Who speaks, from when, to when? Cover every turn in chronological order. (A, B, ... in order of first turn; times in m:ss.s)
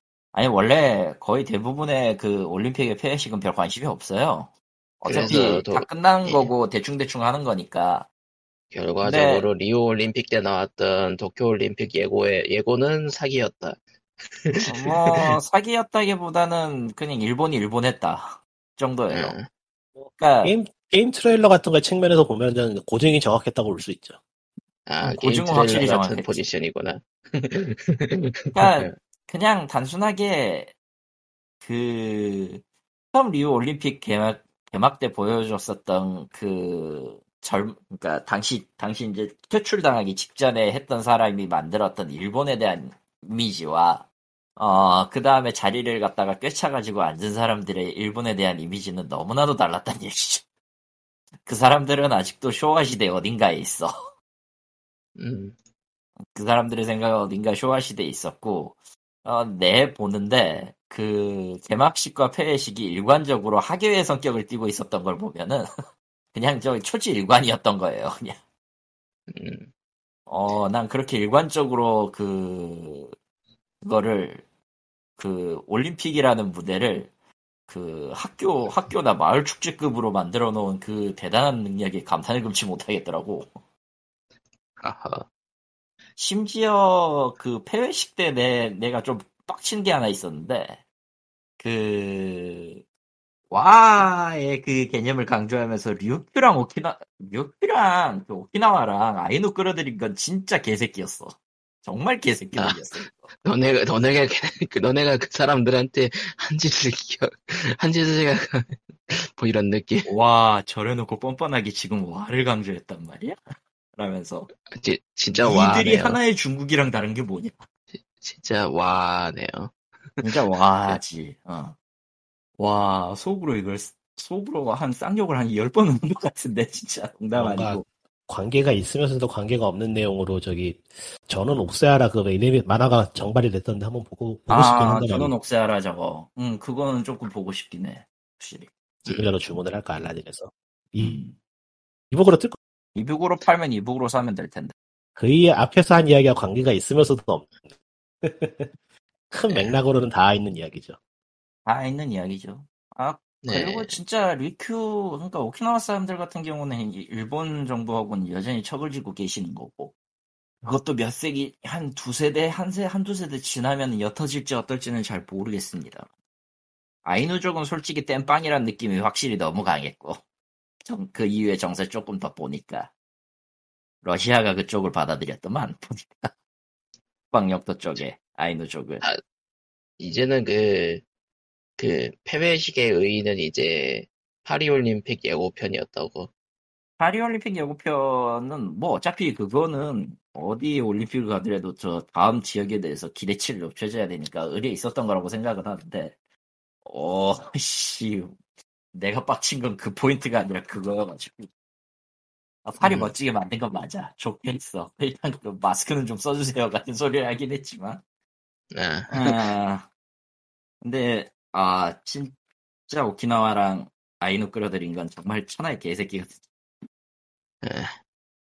0:00.3-0:08.1 A
0:05.1-0:06.5 B
0:08.7-0:15.4 B
0:09.0-0:09.5 A
0:14.6-0:19.4 A
0:19.1-0:19.5 B
0:20.0-0:24.2 C
0:20.2-0:20.5 A
0:24.9-0:28.9 B
0:25.0-0:26.4 A
0:28.5-0:30.7 A
0:31.6-0:44.1 A
0:44.6-0:50.4 A
0:51.4-0:54.1 A
0:55.2-0:55.6 B
0:56.3-1:05.7 A
1:06.3-1:08.4 A
1:09.3-1:09.7 B
1:10.3-1:13.1 A
1:13.8-1:14.4 A
1:15.2-1:17.1 A
1:17.7-1:23.6 A
1:24.8-1:25.3 B
1:26.2-1:30.8 A
1:31.6-1:32.8 A
1:33.5-1:43.3 A
1:43.4-1:50.1 B
1:50.1-1:53.4 A
1:54.0-1:54.5 A
1:54.7-1:56.2 B
1:55.4-1:57.7 A
1:57.9-2:00.2 B
2:00.2-2:01.8 A
2:02.6-2:07.8 A
2:07.4-2:15.4 C
2:14.5-2:18.7 A
2:19.0-2:19.3 B
2:19.1-2:21.2 C
2:21.0-2:21.4 A
2:22.1-2:22.6 C
2:23.0-2:24.7 A
2:25.2-2:27.6 C
2:28.2-2:28.7 C
2:29.3-2:31.0 C
2:31.7-2:39.9 A
2:33.4-2:34.0 B
2:40.6-2:46.1 A
2:47.0-2:50.2 A
2:50.8-2:52.9 A
2:54.0-2:56.3 A
2:57.3-2:59.0 A
3:00.0-3:01.0 B
3:01.8-3:06.3 B
3:07.0-3:16.2 A
3:16.8-3:18.4 A
3:18.9-3:21.5 A
3:22.6-3:28.0 A
3:22.8-3:23.1 B
3:28.7-3:29.4 B
3:29.1-3:29.9 A
3:30.8-3:32.4 A
3:32.9-3:36.4 A
3:37.6-3:38.0 B